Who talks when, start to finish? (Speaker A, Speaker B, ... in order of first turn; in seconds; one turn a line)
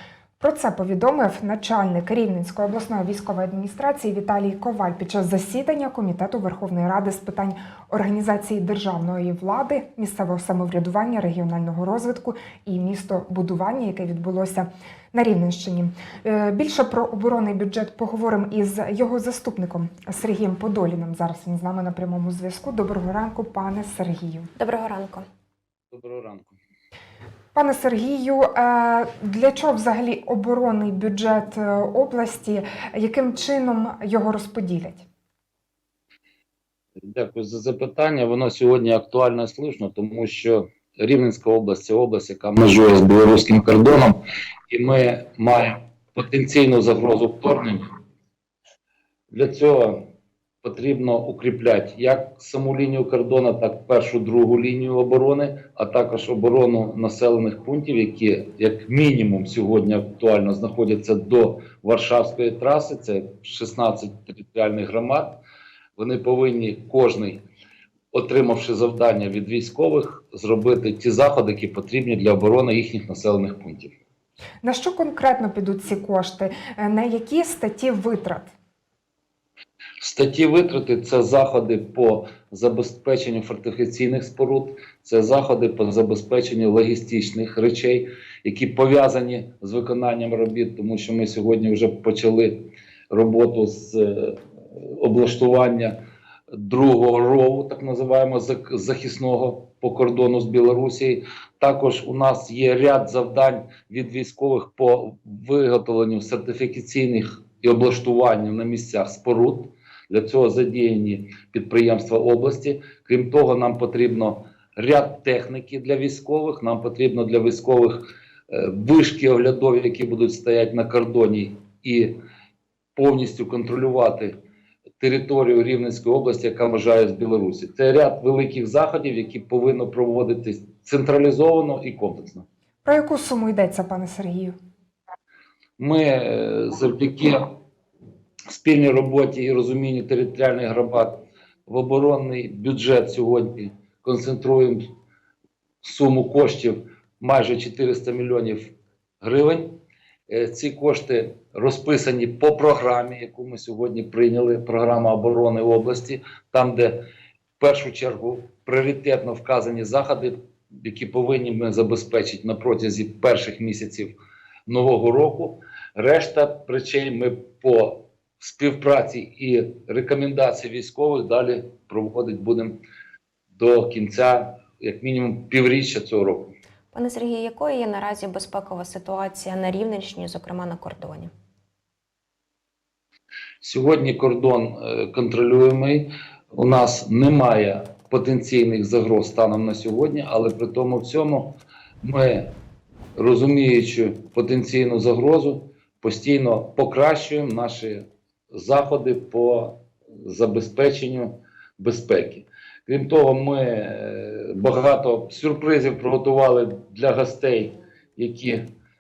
Speaker A: 0.4-24.5
Speaker B: 24.6-25.3
Speaker C: 25.9-26.6
Speaker A: 27.5-35.1
Speaker C: 37.1-47.9
Speaker C: 49.3-50.0
Speaker C: 50.6-65.3
Speaker C: 66.0-67.4
Speaker C: 68.1-74.0
Speaker A: 74.6-78.5
Speaker C: 80.0-92.6
Speaker C: 93.1-96.0
Speaker C: 96.5-122.2
Speaker C: 123.0-124.3
Speaker C: 125.0-132.4
Speaker A: 132.8-134.6
Speaker C: 135.8-137.4
Speaker C: 138.5-141.1
Speaker C: 141.7-144.8
Speaker C: 145.8-149.7
Speaker C: 150.3-157.0
Speaker C: 157.6-164.2
Speaker C: 164.7-172.8
Speaker C: 173.5-176.5
Speaker B: 176.9-181.3
Speaker C: 183.6-192.5
Speaker C: 193.2-208.6